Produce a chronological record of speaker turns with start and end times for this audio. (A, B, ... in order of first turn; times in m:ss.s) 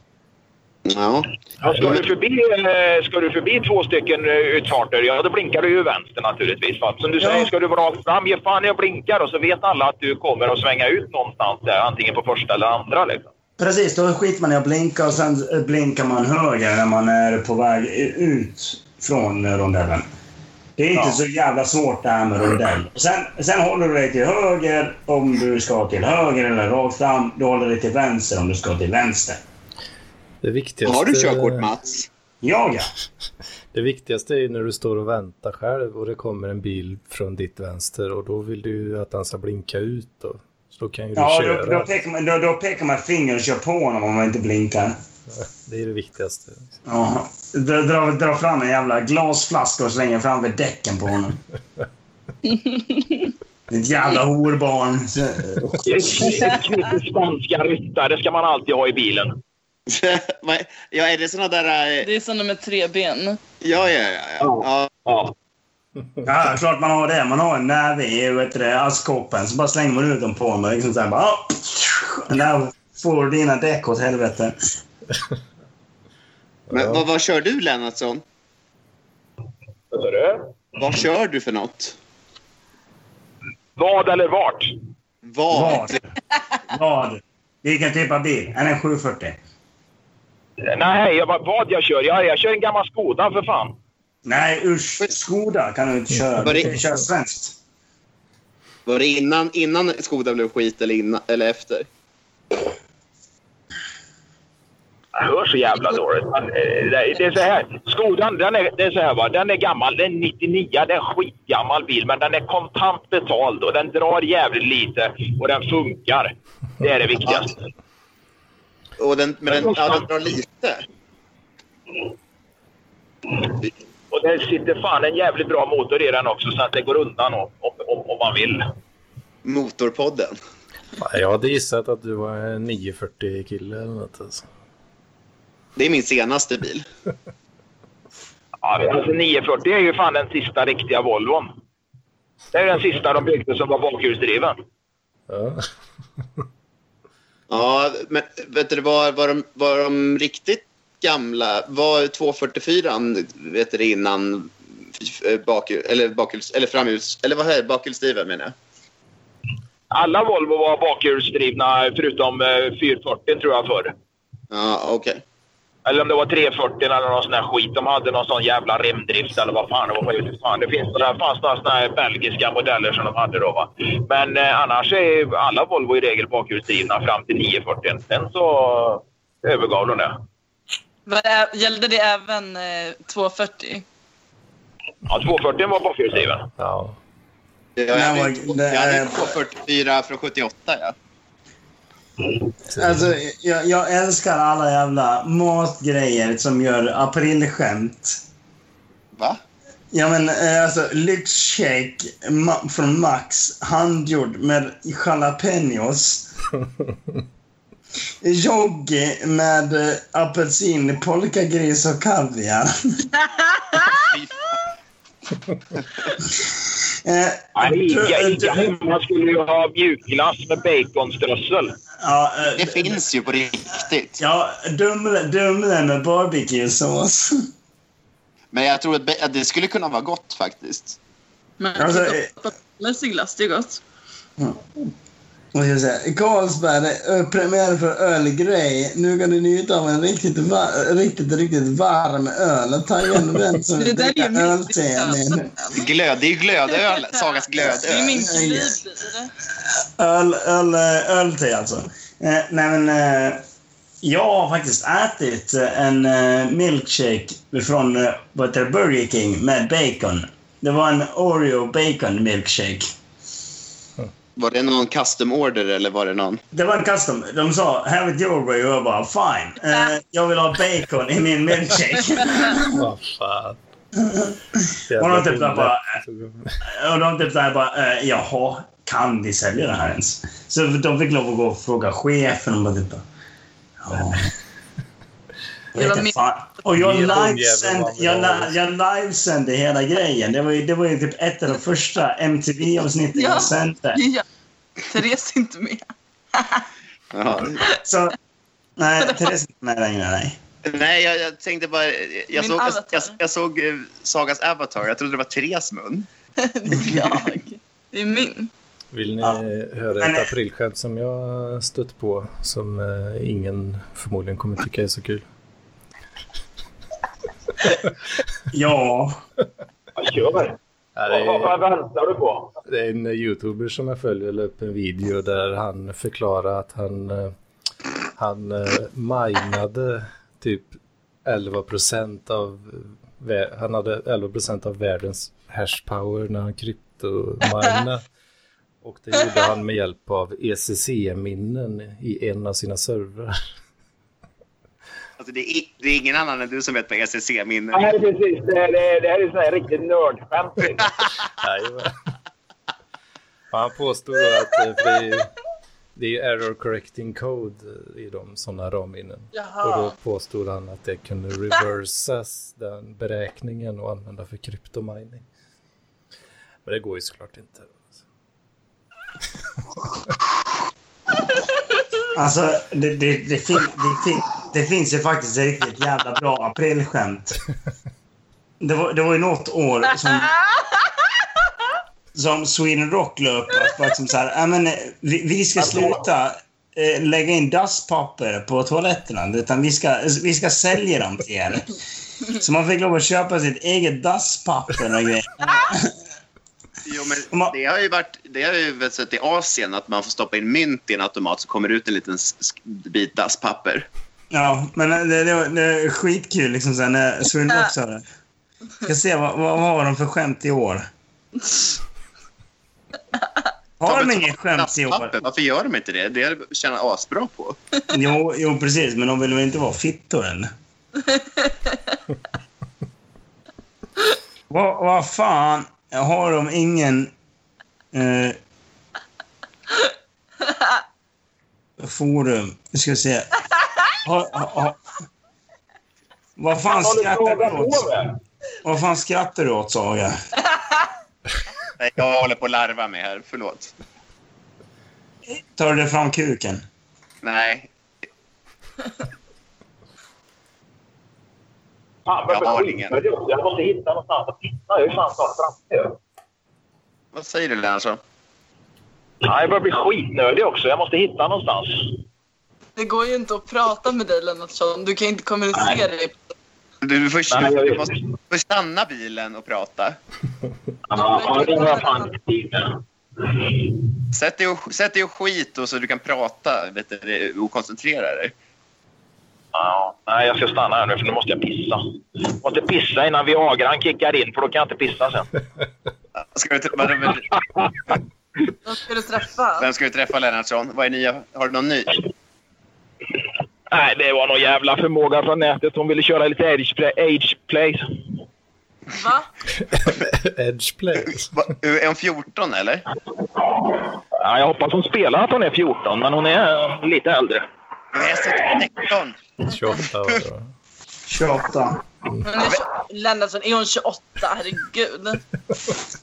0:00.8-0:02.0 A
0:01.6-0:13.3 B
0:07.2-0:07.5 C
0:13.6-0:20.0 C
0:20.8-0:29.4 C
0:30.4-0:31.7 D
0:30.8-0:32.1 A
0:32.4-0:32.9 C
0:33.7-0:41.9 D
0:41.2-0:45.0 C
0:45.4-0:46.8 D
0:46.8-0:51.4 C
0:52.5-0:53.3 E
0:53.7-0:56.4 C
0:55.8-0:59.4 B
0:59.9-1:02.1 A
1:02.0-1:03.4 E
1:03.6-1:05.0 A
1:04.4-1:05.3 B
1:06.2-1:14.6 C
1:16.7-1:18.2 A
1:16.7-1:17.0 D
1:19.9-1:20.7 B
1:20.8-1:22.0 A
1:23.8-1:24.7 B
1:25.2-1:26.0 A
1:25.5-1:26.0 C
1:26.7-1:29.4 C
1:30.6-1:33.8 B
1:34.2-1:37.6 C
1:36.4-1:36.8 A
1:38.8-1:41.9 A
1:45.1-1:57.6 B
1:57.2-1:57.5 A
1:59.0-2:00.8 A
1:59.5-2:00.1 B
2:04.1-2:08.7 B
2:09.4-2:10.3 A
2:11.0-2:14.4 D
2:15.8-2:16.9 A
2:18.6-2:21.5 B
2:22.5-2:24.6 B
2:25.3-2:25.7 D
2:27.5-2:38.5 A
2:39.9-2:43.9 B
2:44.5-2:45.2 A
2:45.8-3:00.2 B
3:01.0-3:03.8 E
3:05.0-3:06.5 B
3:06.3-3:07.0 D
3:07.8-3:10.9 A
3:07.9-3:09.4 C
3:12.7-3:13.1 D
3:12.7-3:18.2 C
3:19.9-3:26.3 C
3:28.2-3:33.0 C
3:33.8-3:34.4 A
3:37.0-3:38.7 C
3:37.6-3:41.8 B
3:42.0-3:43.0 C
3:42.5-3:44.2 A
3:44.2-3:47.5 C
3:48.5-3:51.0 A
3:51.6-3:53.8 E
3:51.8-3:52.3 C
3:54.4-3:54.9 C
3:55.5-4:05.5 C
4:03.7-4:05.9 E
4:05.7-4:08.4 A
4:06.7-4:09.3 E
4:08.2-4:08.8 C
4:09.7-4:13.4 C
4:14.0-4:22.9 C
4:24.4-4:26.4 A
4:26.5-4:32.8 C
4:32.5-4:33.6 D
4:34.0-4:35.8 C
4:34.9-4:36.6 D
4:36.6-4:43.0 C
4:43.8-4:44.3 C
4:45.7-4:54.0 C
4:45.8-4:46.2 E
4:46.7-4:48.6 D
4:53.1-4:54.2 E
4:54.9-4:55.8 E
4:56.4-4:56.6 E
4:57.1-4:57.6 A
4:57.8-4:58.1 C
4:58.8-5:00.4 C
4:59.0-4:59.3 E
5:00.6-5:06.1 A
5:02.3-5:03.2 E
5:06.4-5:08.5 E
5:08.9-5:15.2 D
5:10.0-5:10.3 C
5:18.5-5:19.2 C
5:20.0-5:22.5 B
5:21.0-5:21.6 D
5:22.6-5:27.3 D
5:28.2-5:38.0 D
5:38.8-5:43.4 D
5:45.2-5:47.8 A
5:47.7-5:50.9 B
5:51.4-5:51.9 D
5:53.5-5:55.3 D
5:56.0-6:05.2 D
5:59.3-5:59.9 E
6:06.6-6:08.0 D
6:12.1-6:17.4 C
6:18.6-6:20.3 C
6:22.1-6:31.7 C
6:25.6-6:26.0 B
6:32.3-6:35.9 C
6:36.8-6:43.9 A
6:44.3-6:48.0 C
6:48.8-6:50.9 C
6:53.8-6:55.2 C
6:53.8-6:57.6 A
6:57.9-7:00.5 C
7:01.1-7:01.9 E
7:04.5-7:07.1 C
7:07.9-7:08.4 C
7:11.8-7:13.3 C
7:14.0-7:14.8 C
7:16.4-7:17.9 C
7:16.7-7:18.2 B
7:18.6-7:20.1 C
7:21.8-7:23.7 A
7:25.3-7:26.6 C
7:27.2-7:27.7 A
7:32.1-7:36.0 B
7:32.3-7:33.0 A
7:37.1-7:38.0 A
7:39.2-7:42.0 B
7:42.8-7:46.2 E
7:45.5-7:45.8 B
7:46.8-7:50.0 A
7:47.3-7:48.2 B
7:50.9-7:54.0 B
7:50.9-7:52.1 E
7:54.1-7:58.3 A
7:59.5-8:05.3 B
8:06.2-8:07.3 A
8:07.1-8:08.0 B
8:08.6-8:09.7 E
8:09.6-8:12.0 A
8:13.7-8:17.8 B
8:18.9-8:19.3 E
8:19.6-8:21.3 D
8:21.0-8:22.8 A
8:23.4-8:27.5 B
8:27.9-8:29.2 A
8:28.0-8:28.8 B
8:29.4-8:30.5 D
8:31.1-8:31.8 C
8:32.2-8:35.2 E